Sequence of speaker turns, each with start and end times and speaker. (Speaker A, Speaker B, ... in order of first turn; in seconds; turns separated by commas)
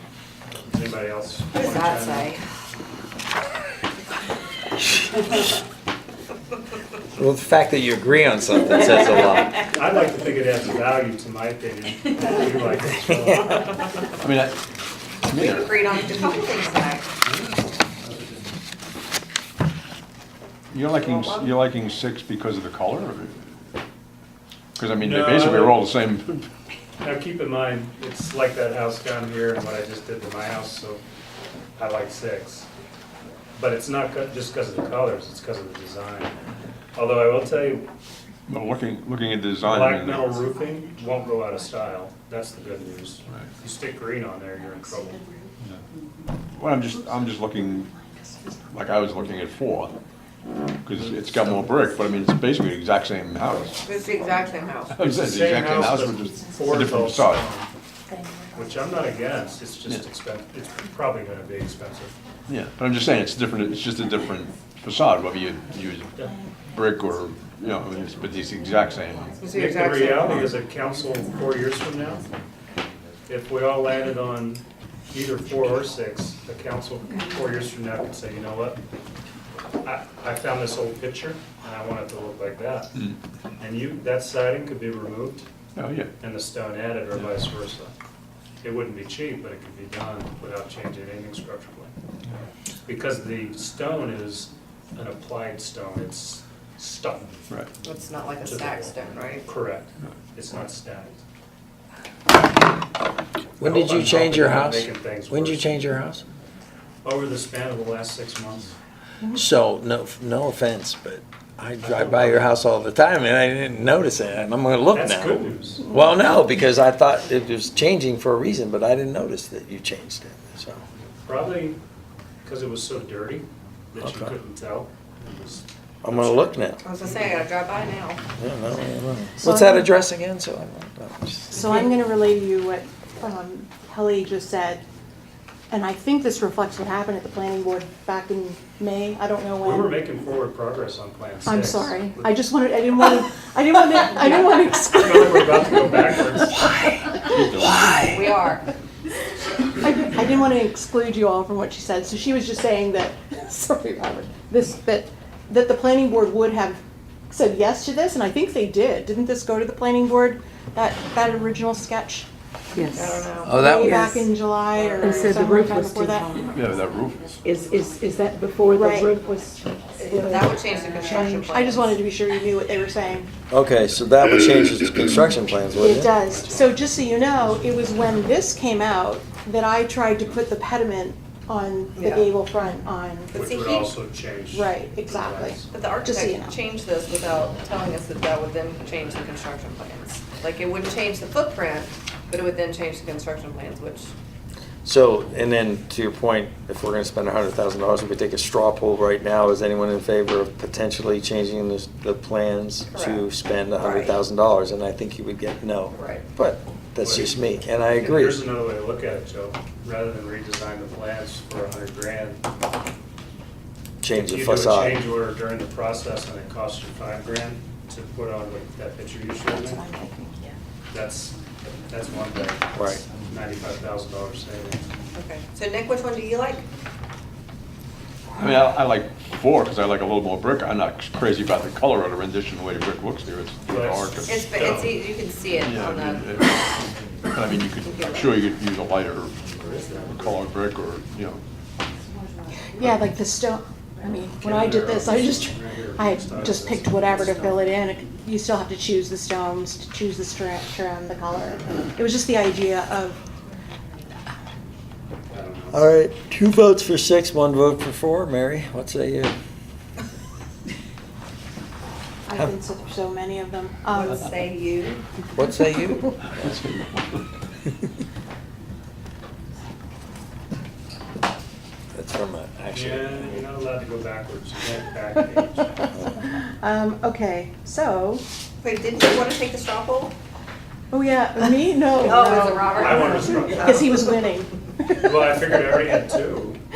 Speaker A: 0.6-2.4, Speaker B: 1.5-2.4, Speaker C: 7.2-9.6, Speaker A: 9.5-13.9, Speaker D: 14.2-14.6, Speaker D: 15.2-15.7, Speaker B: 15.3-17.1, Speaker A: 17.2-18.5, Speaker D: 20.7-23.5, Speaker B: 21.0-21.5, Speaker D: 24.8-26.5, Speaker A: 25.0-25.8, Speaker A: 27.0-31.0, Speaker A: 31.8-32.7, Speaker A: 33.5-36.4, Speaker A: 36.9-37.9, Speaker D: 38.5-40.4, Speaker A: 39.6-45.2, Speaker E: 44.6-45.5, Speaker D: 46.5-47.9, Speaker E: 47.0-48.8, Speaker D: 48.7-49.9, Speaker D: 50.8-53.8, Speaker A: 51.4-51.7, Speaker B: 53.8-55.0, Speaker D: 54.9-57.5, Speaker A: 55.0-57.7, Speaker E: 55.6-56.7, Speaker E: 58.1-59.0, Speaker A: 58.5-62.1, Speaker D: 62.5-66.2, Speaker E: 66.2-67.0, Speaker D: 66.7-69.4, Speaker E: 68.4-69.4, Speaker B: 69.4-70.4, Speaker A: 69.5-72.2, Speaker D: 70.2-70.5, Speaker A: 73.3-78.8, Speaker A: 79.8-83.0, Speaker A: 83.6-85.5, Speaker D: 85.8-86.1, Speaker A: 86.2-87.9, Speaker A: 88.6-91.9, Speaker A: 92.8-97.3, Speaker B: 97.8-99.5, Speaker A: 98.4-101.2, Speaker C: 103.6-106.2, Speaker A: 103.6-105.7, Speaker A: 107.0-108.7, Speaker C: 109.3-120.8, Speaker A: 111.8-112.5, Speaker A: 114.9-115.8, Speaker A: 121.2-121.8, Speaker A: 122.4-127.4, Speaker C: 124.0-124.3, Speaker C: 126.0-126.8, Speaker B: 126.8-128.2, Speaker C: 128.4-131.8, Speaker E: 129.4-129.9, Speaker E: 131.5-134.8, Speaker E: 135.7-139.9, Speaker A: 139.6-142.3, Speaker E: 141.4-147.3, Speaker A: 145.0-146.7, Speaker D: 147.3-148.1, Speaker B: 147.9-148.7, Speaker E: 149.8-162.3, Speaker F: 162.7-164.2, Speaker B: 162.8-165.3, Speaker E: 163.6-166.6, Speaker F: 165.0-166.6, Speaker D: 166.5-167.4, Speaker F: 167.4-170.6, Speaker E: 168.7-169.2, Speaker B: 170.1-172.1, Speaker E: 170.9-173.3, Speaker C: 173.5-176.2, Speaker E: 175.8-183.3, Speaker A: 176.2-177.8, Speaker B: 182.0-182.3, Speaker B: 183.3-183.9, Speaker A: 183.3-185.7, Speaker E: 184.5-186.6, Speaker B: 185.7-194.1, Speaker C: 194.8-208.4, Speaker B: 202.9-203.2, Speaker B: 203.8-204.1, Speaker B: 205.9-206.2, Speaker A: 207.0-212.4, Speaker C: 214.0-215.0, Speaker A: 214.1-219.8, Speaker E: 219.5-220.6, Speaker A: 220.9-224.8, Speaker C: 222.7-223.0, Speaker B: 225.1-226.7, Speaker D: 228.4-234.6, Speaker A: 233.7-235.0, Speaker B: 234.2-236.4, Speaker D: 235.6-241.4, Speaker B: 237.6-238.4, Speaker A: 239.5-240.4, Speaker B: 242.0-242.5, Speaker E: 242.6-253.2, Speaker A: 244.4-247.7, Speaker A: 255.3-255.9, Speaker C: 255.7-259.4, Speaker E: 262.2-264.3, Speaker B: 263.9-265.0, Speaker C: 265.3-266.3, Speaker D: 266.3-267.2, Speaker C: 271.9-273.4, Speaker A: 272.7-275.9, Speaker E: 275.8-278.2, Speaker B: 278.6-280.1, Speaker E: 280.9-285.8, Speaker B: 281.9-283.9, Speaker A: 282.7-284.1, Speaker A: 285.0-286.6